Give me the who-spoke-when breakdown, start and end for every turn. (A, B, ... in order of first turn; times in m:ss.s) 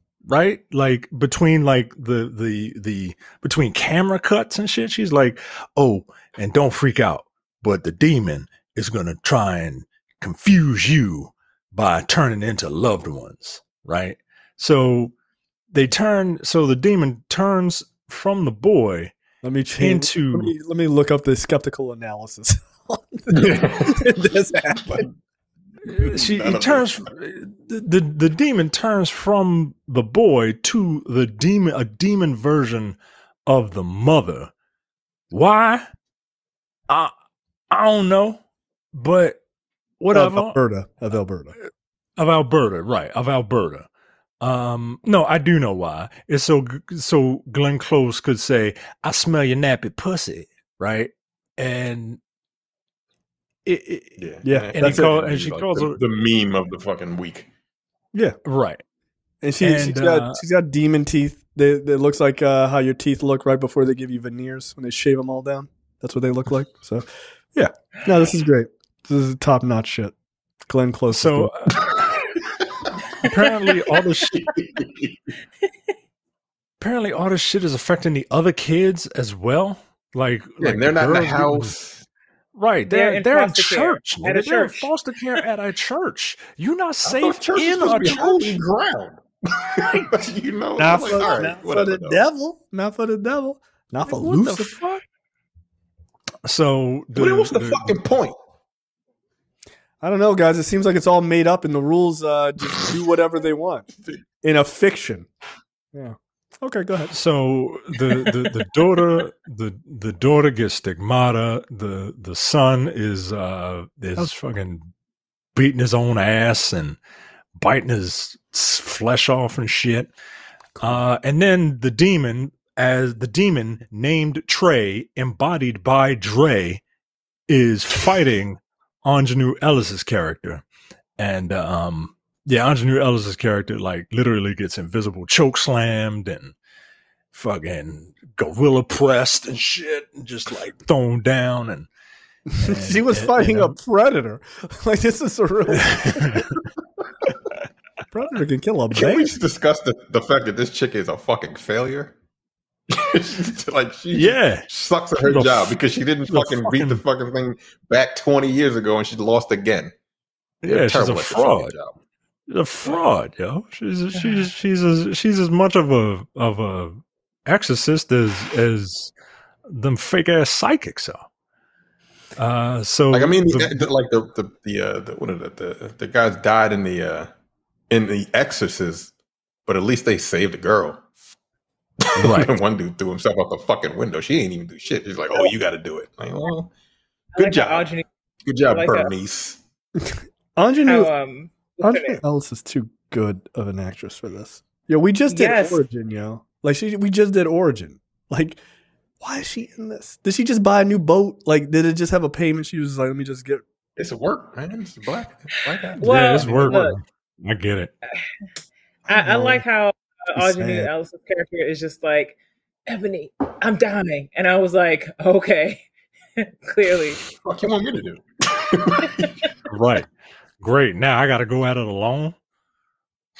0:00.2-0:15.1 A
0:15.7-0:19.1 A
0:19.4-0:25.1 B
0:19.8-0:20.5 A
0:23.3-0:24.1 C
0:24.8-0:25.1 C
0:25.8-0:34.5 A
0:25.9-0:26.9 C
0:35.3-0:35.9 A
0:37.7-0:38.4 A
0:38.9-0:39.4 A
0:40.0-0:40.6 A
0:40.1-0:41.5 B
0:42.2-0:43.9 A
0:44.4-0:52.2 A
0:53.6-0:56.0 A
0:54.2-0:57.5 C
0:54.4-0:55.1 B
0:58.4-0:58.8 A
0:59.4-1:10.1 B
0:59.6-1:00.4 A
1:10.7-1:11.5 B
1:11.1-1:12.1 A
1:13.2-1:14.3 A
1:14.2-1:15.3 C
1:16.8-1:21.7 A
1:20.6-1:22.0 C
1:22.5-1:28.6 A
1:22.9-1:24.9 D
1:27.0-1:32.2 C
1:30.8-1:34.8 B
1:34.1-1:35.0 A
1:36.4-1:38.0 A
1:37.1-1:38.4 C
1:40.0-1:43.9 B
1:44.4-1:45.3 B
1:45.9-1:47.1 B
1:47.1-1:54.9 A
1:55.5-1:57.0 A
1:57.6-2:00.1 A
2:00.8-2:06.8 A
2:07.5-2:10.6 A
2:11.2-2:16.5 A
2:17.3-2:21.9 A
2:22.5-2:26.2 B
2:22.6-2:23.8 A
2:25.7-2:26.6 A
2:28.1-2:29.3 B
2:28.9-2:32.1 C
2:32.9-2:39.9 C
2:34.1-2:34.7 A
2:35.2-2:35.8 A
2:36.3-2:37.0 A
2:40.6-2:41.7 A
2:40.6-2:42.0 C
2:42.5-2:49.1 A
2:49.6-2:51.3 A
2:52.4-2:53.9 A
2:53.1-2:57.3 C
2:57.9-2:59.1 C
2:59.6-3:01.0 C
3:02.0-3:06.7 C
3:02.2-3:02.6 A
3:07.3-3:08.0 D
3:07.4-3:07.9 C
3:08.5-3:09.6 C
3:08.6-3:09.1 D
3:10.0-3:11.1 B
3:10.8-3:12.2 D
3:11.8-3:18.6 B
3:15.3-3:15.8 D
3:19.2-3:23.6 B
3:24.0-3:26.8 C
3:25.7-3:27.0 D
3:26.0-3:27.9 A
3:28.0-3:28.4 D
3:29.0-3:29.6 B
3:29.1-3:32.4 D
3:30.4-3:30.9 B
3:32.9-3:35.8 D
3:36.4-3:37.2 D
3:37.2-3:39.3 C
3:39.7-3:40.1 A
3:40.6-3:42.4 A